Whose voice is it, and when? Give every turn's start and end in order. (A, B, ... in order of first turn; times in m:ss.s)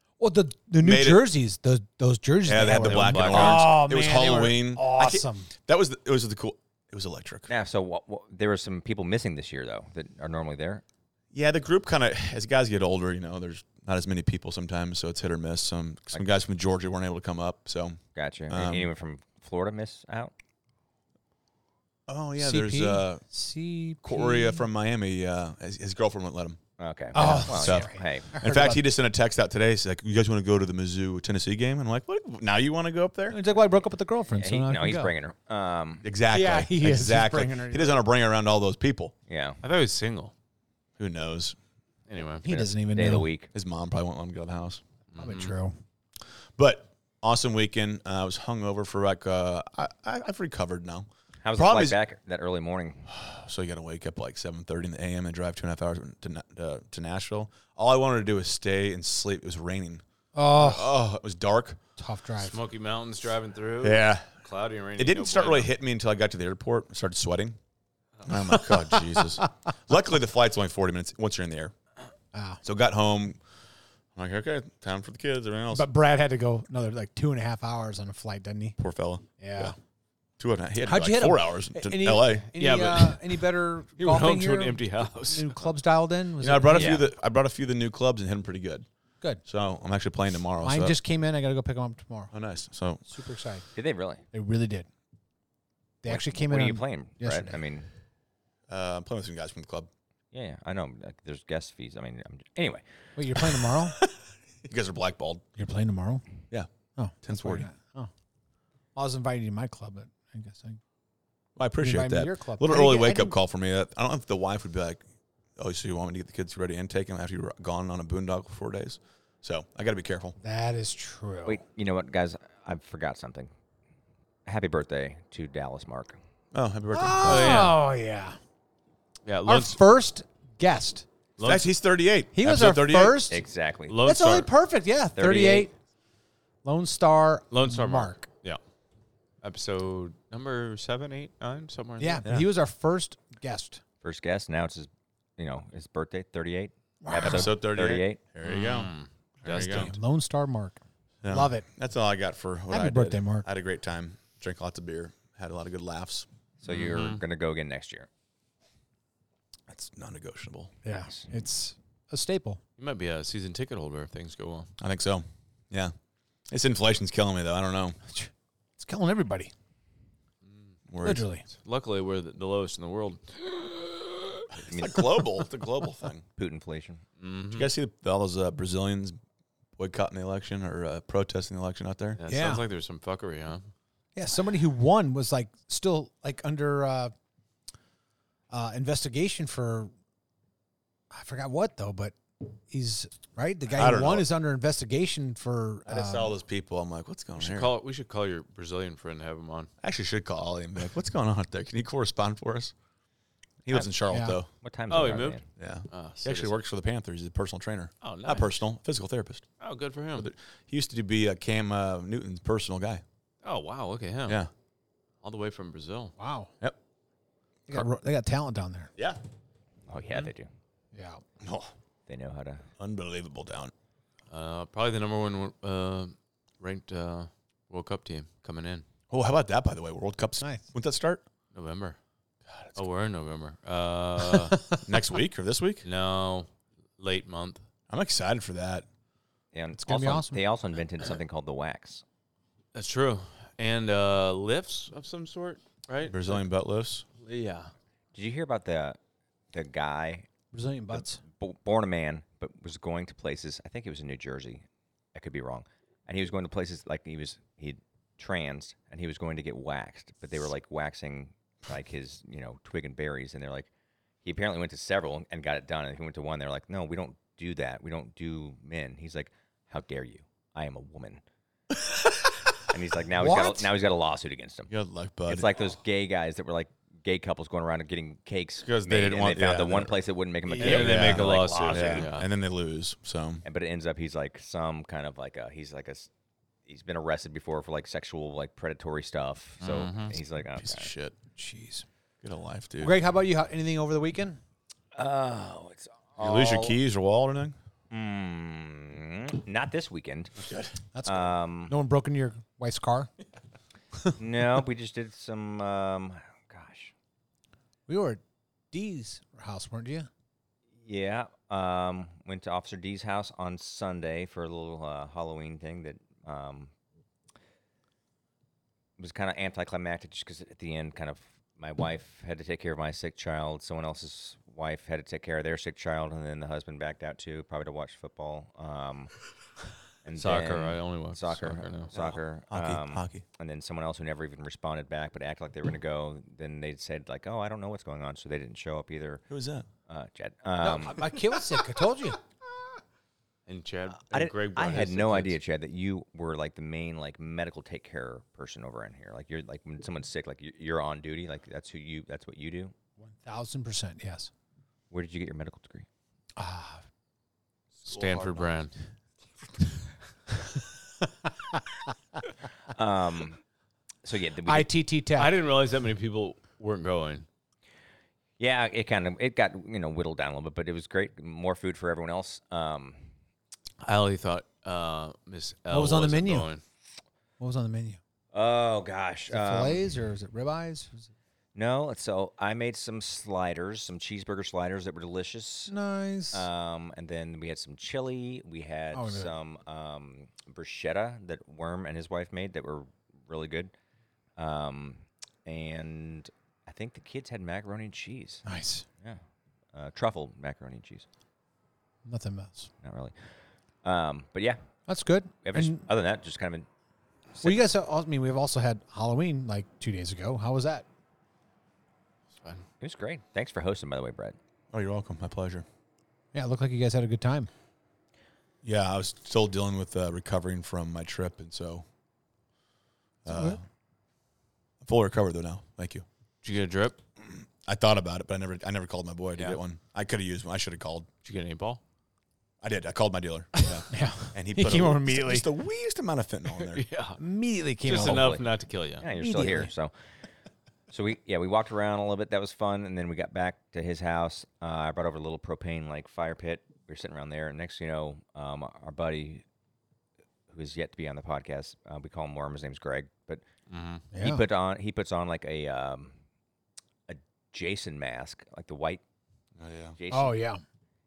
0:00.2-0:05.5 A
0:00.8-0:01.3 B
0:02.4-0:07.5 B
0:02.7-0:03.7 C
0:07.5-0:10.8 D
0:11.3-0:18.9 B
0:18.1-0:20.3 D
0:22.1-0:23.2 B
0:22.4-0:24.6 A
0:24.0-0:26.6 B
0:26.8-0:28.3 D
0:27.1-0:28.8 A
0:27.1-0:33.4 B
0:33.3-0:35.1 A
0:34.4-0:36.1 D
0:36.0-0:39.1 B
0:36.3-0:38.0 A
0:39.3-0:39.6 D
0:39.6-0:40.3 C
0:41.0-0:41.6 B
0:42.1-0:42.4 C
0:42.4-0:43.3 A
0:42.4-0:43.5 D
0:43.5-0:44.8 B
0:45.1-0:45.5 C
0:45.2-0:45.7 A
0:46.6-0:52.0 B
0:51.4-0:53.1 D
0:53.1-1:01.8 B
1:00.3-1:01.0 A
1:02.0-1:02.6 A
1:02.4-1:05.7 C
1:03.8-1:04.3 B
1:05.0-1:07.6 B
1:08.2-1:11.7 B
1:12.3-1:12.6 A
1:12.6-1:13.4 B
1:14.1-1:15.9 B
1:15.7-1:18.8 A
1:18.8-1:19.7 B
1:19.4-1:19.7 A
1:20.4-1:22.5 B
1:20.8-1:27.0 A
1:22.6-1:23.4 C
1:24.0-1:25.5 C
1:26.4-1:28.8 B
1:26.7-1:27.0 D
1:29.4-1:31.0 B
1:30.6-1:32.3 A
1:32.3-1:33.0 B
1:33.1-1:33.6 A
1:33.7-1:34.2 D
1:34.3-1:34.9 A
1:36.0-1:37.6 A
1:36.0-1:37.9 D
1:38.7-1:39.9 B
1:40.3-1:42.8 D
1:43.2-1:44.0 A
1:43.7-1:45.4 B
1:45.6-1:46.2 A
1:47.0-1:48.1 A
1:47.2-1:47.7 B
1:48.9-1:50.8 A
1:51.6-1:55.0 B
1:51.8-1:53.3 A
1:55.6-2:00.4 B
2:00.4-2:01.6 A
2:01.4-2:03.5 D
2:04.4-2:06.2 D
2:06.5-2:07.7 B
2:06.9-2:08.4 A
2:07.2-2:07.8 C
2:09.2-2:09.8 C
2:09.4-2:11.0 A
2:11.4-2:11.7 C
2:11.4-2:13.3 B
2:12.3-2:13.4 A
2:13.3-2:14.0 D
2:13.9-2:14.5 C
2:14.0-2:15.7 A
2:15.2-2:15.7 D
2:16.6-2:18.2 A
2:17.5-2:18.6 C
2:19.4-2:22.4 C
2:22.0-2:23.8 A
2:24.0-2:28.2 D
2:27.0-2:27.5 A
2:27.2-2:28.9 B
2:28.4-2:29.9 C
2:29.4-2:29.9 B
2:29.5-2:31.6 A
2:31.2-2:36.3 B
2:32.7-2:33.5 A
2:36.6-2:38.1 D
2:36.7-2:37.2 C
2:39.7-2:40.7 B
2:40.8-2:42.6 A
2:42.8-2:44.7 C
2:44.8-2:45.9 B
2:46.5-2:48.0 B
2:48.1-2:49.5 A
2:50.4-2:50.7 C
2:50.9-2:51.3 B
2:51.0-2:51.4 A
2:51.6-2:54.4 C
2:54.6-2:56.2 B
2:54.7-2:55.2 D
2:56.4-2:57.0 D
2:57.2-2:57.7 C
2:57.5-2:59.2 B
2:59.8-3:02.2 B
3:02.2-3:03.7 C
3:02.3-3:02.6 A
3:04.2-3:07.1 A
3:08.5-3:09.9 A
3:11.1-3:16.3 A
3:13.7-3:14.3 B
3:15.8-3:17.7 B
3:17.4-3:19.7 C
3:19.8-3:22.7 B
3:23.6-3:24.5 B
3:24.1-3:24.4 A
3:24.6-3:25.4 D
3:24.9-3:25.4 C
3:25.6-3:29.5 B
3:25.9-3:26.5 C
3:28.0-3:28.6 C
3:29.6-3:30.3 C
3:30.1-3:33.0 B
3:33.4-3:34.4 C
3:35.2-3:36.1 C
3:36.2-3:36.5 A
3:37.7-3:38.9 A
3:39.9-3:40.5 D
3:40.9-3:41.2 A
3:41.4-3:41.7 B
3:42.1-3:42.6 D
3:42.8-3:43.7 B
3:44.3-3:48.8 C
3:49.1-3:51.2 B
3:50.4-3:50.6 A
3:51.5-3:52.0 C
3:52.5-3:52.8 B
3:52.8-3:54.6 C
3:54.8-3:55.8 B
3:55.8-3:56.5 C
3:57.0-3:57.6 C
3:57.9-3:58.8 B
3:59.5-4:02.0 D
3:59.8-4:00.4 A
4:02.7-4:06.4 C
4:06.0-4:07.0 B
4:07.2-4:07.7 C
4:08.1-4:09.0 D
4:09.5-4:10.3 D
4:10.5-4:11.2 A
4:10.9-4:23.7 D
4:24.2-4:31.2 D
4:32.7-4:34.7 D
4:33.2-4:33.7 A
4:34.7-4:35.7 B
4:35.3-4:42.1 D
4:38.6-4:39.9 B
4:40.4-4:43.4 B
4:40.6-4:42.3 C
4:43.4-4:46.1 D
4:46.6-4:50.9 D
4:49.6-4:51.1 C
4:51.4-4:51.8 A
4:52.2-4:53.0 B
4:52.8-4:54.4 A
4:54.9-4:56.8 D
4:56.2-4:57.6 B
4:57.9-5:00.3 D
5:00.4-5:00.7 B
5:00.9-5:03.1 A
5:01.0-5:01.7 D
5:04.2-5:06.9 D
5:07.9-5:08.2 A
5:08.7-5:10.1 A
5:10.8-5:16.7 D
5:19.0-5:29.1 D
5:30.0-5:39.2 D
5:30.1-5:31.9 C
5:32.0-5:33.2 B
5:39.3-5:39.7 B
5:39.9-5:41.1 D
5:40.6-5:42.2 A
5:43.5-5:45.4 C
5:44.1-5:52.7 D
5:53.0-5:54.3 A
5:54.9-5:55.9 D
5:56.4-5:56.8 A
5:57.8-5:58.5 B
5:57.8-5:58.7 C
6:02.7-6:03.4 D
6:04.0-6:04.7 D
6:04.4-6:05.3 A
6:05.2-6:07.2 C
6:08.4-6:13.0 D
6:13.8-6:16.6 C
6:15.7-6:16.5 A
6:17.4-6:18.0 A
6:18.3-6:19.8 D
6:19.3-6:21.1 A
6:21.5-6:25.7 D
6:25.7-6:26.4 A
6:26.3-6:33.7 D
6:28.9-6:29.3 A
6:34.4-6:38.4 D
6:38.4-6:38.8 A
6:39.7-6:41.0 D
6:42.0-6:42.7 A
6:42.8-6:43.3 D
6:43.8-6:44.6 D
6:44.9-6:45.8 A
6:45.4-6:46.7 D
6:47.4-6:50.8 A
6:52.8-6:54.4 D
6:54.7-6:55.6 B
6:56.3-6:57.5 A
6:58.6-7:01.8 B
7:03.2-7:03.6 B
7:03.3-7:03.6 A
7:04.8-7:06.0 B
7:06.4-7:07.0 C
7:07.2-7:11.1 B
7:11.2-7:11.8 C
7:12.6-7:16.8 B
7:13.9-7:15.5 A
7:16.6-7:17.2 C
7:17.2-7:18.3 A
7:17.8-7:19.0 C
7:17.9-7:18.4 D
7:19.0-7:19.9 D
7:19.1-7:19.7 A
7:20.9-7:29.4 D
7:30.5-7:33.4 D
7:33.7-7:34.0 C
7:34.1-7:34.4 A
7:34.2-7:36.1 D
7:37.1-7:39.0 D
7:39.6-7:40.0 B
7:40.0-7:40.4 D
7:40.1-7:40.6 A